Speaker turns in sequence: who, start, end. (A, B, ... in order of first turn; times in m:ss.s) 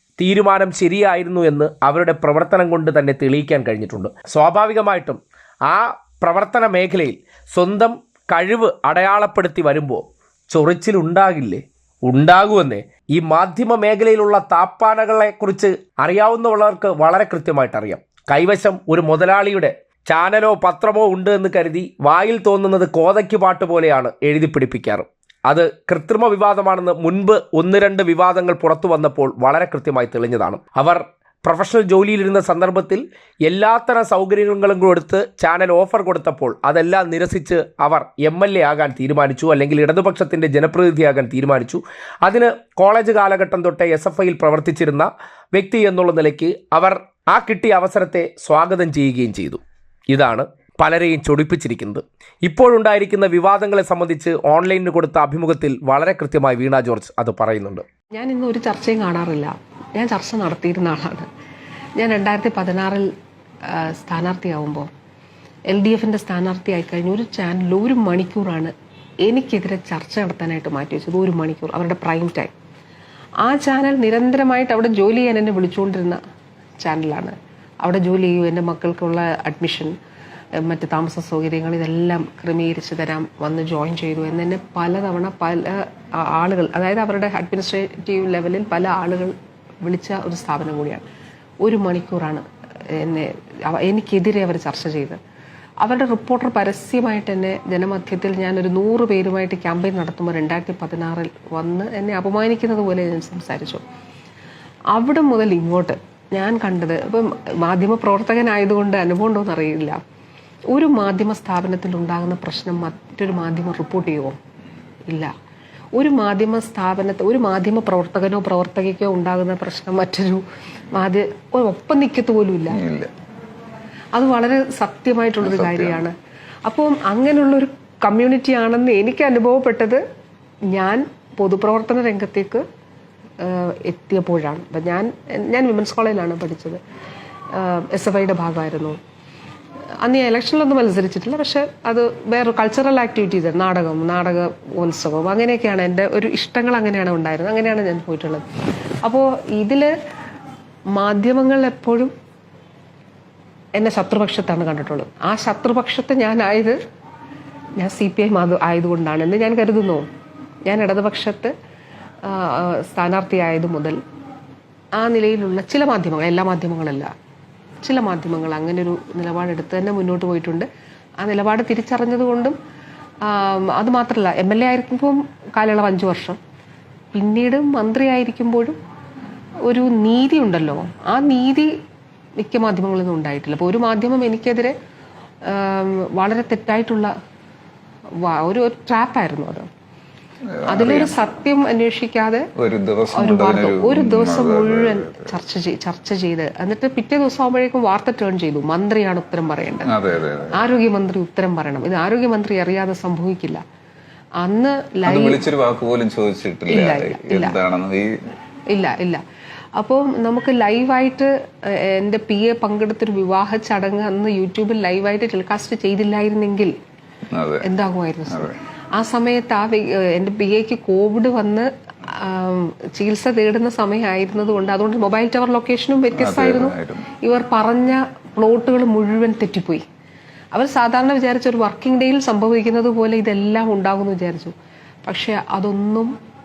0:00.2-0:57.8 A
0:58.1-1:01.3 B
1:02.0-1:03.1 B
1:03.7-1:04.9 B
1:05.7-1:08.7 B
1:09.3-1:12.5 B
1:13.4-1:16.2 B
1:16.8-1:19.9 B
1:20.6-1:31.0 B
1:31.6-1:35.2 B
1:35.8-1:43.8 B
1:44.9-1:50.0 B
1:50.7-1:54.4 B
1:56.0-2:02.8 B
2:02.7-2:03.1 C
2:04.1-2:06.1 B
2:05.4-2:06.0 C
2:06.6-2:10.0 B
2:10.7-2:12.6 B
2:13.4-2:16.8 B
2:17.5-2:19.0 B
2:20.0-2:28.4 B
2:29.0-2:29.9 B
2:31.0-2:32.1 B
2:33.8-2:36.8 B
2:37.8-2:40.1 B
2:40.7-2:41.5 B
2:42.2-2:44.0 B
2:45.0-2:47.1 B
2:47.8-2:50.7 B
2:51.2-2:52.6 B
2:53.2-2:56.4 B
2:57.2-2:58.8 B
2:59.7-3:01.7 B
3:02.4-3:04.7 B
3:05.4-3:07.1 B
3:08.2-3:09.7 B
3:10.5-3:11.2 C
3:10.7-3:12.4 B
3:12.6-3:15.4 C
3:13.1-3:19.9 B
3:19.8-3:20.6 C
3:20.5-3:23.6 B
3:24.4-3:25.4 B
3:25.0-3:28.1 C
3:26.7-3:27.6 B
3:28.7-3:29.2 B
3:29.8-3:36.7 B
3:37.3-3:37.7 C
3:37.6-3:49.8 B
3:38.3-3:38.6 C
3:46.1-3:47.1 C
3:50.5-3:54.5 B
3:55.0-3:56.1 B